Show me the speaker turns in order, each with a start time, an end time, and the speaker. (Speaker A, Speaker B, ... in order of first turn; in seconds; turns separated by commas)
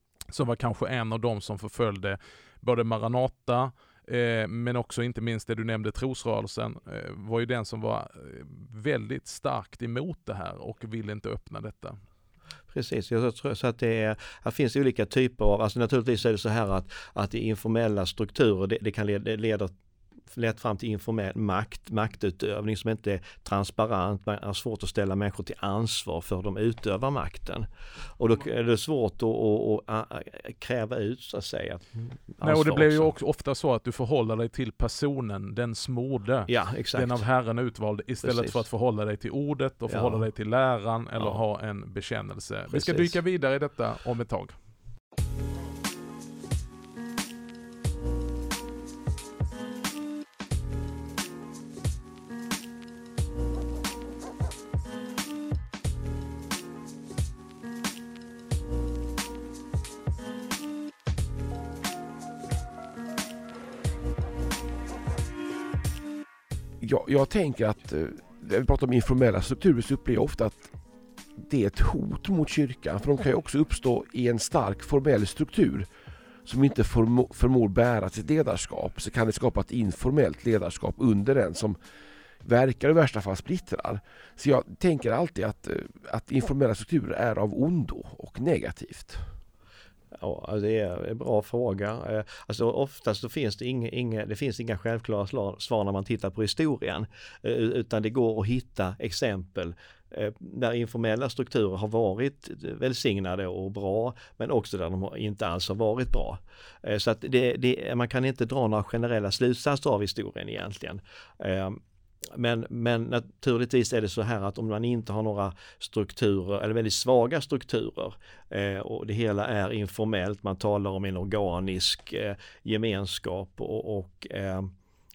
Speaker A: 0.3-12.0, Speaker B: 12.7-19.7, Speaker B: 20.3-27.7, Speaker B: 28.2-33.1, Speaker A: 32.4-44.6, Speaker B: 36.5-37.2, Speaker B: 38.2-38.6, Speaker B: 39.9-40.2, Speaker B: 41.2-41.4, Speaker B: 42.7-43.2, Speaker C: 66.8-70.7, Speaker C: 71.4-75.9, Speaker C: 76.5-81.8, Speaker C: 82.4-89.2, Speaker B: 90.2-111.8, Speaker B: 112.3-124.7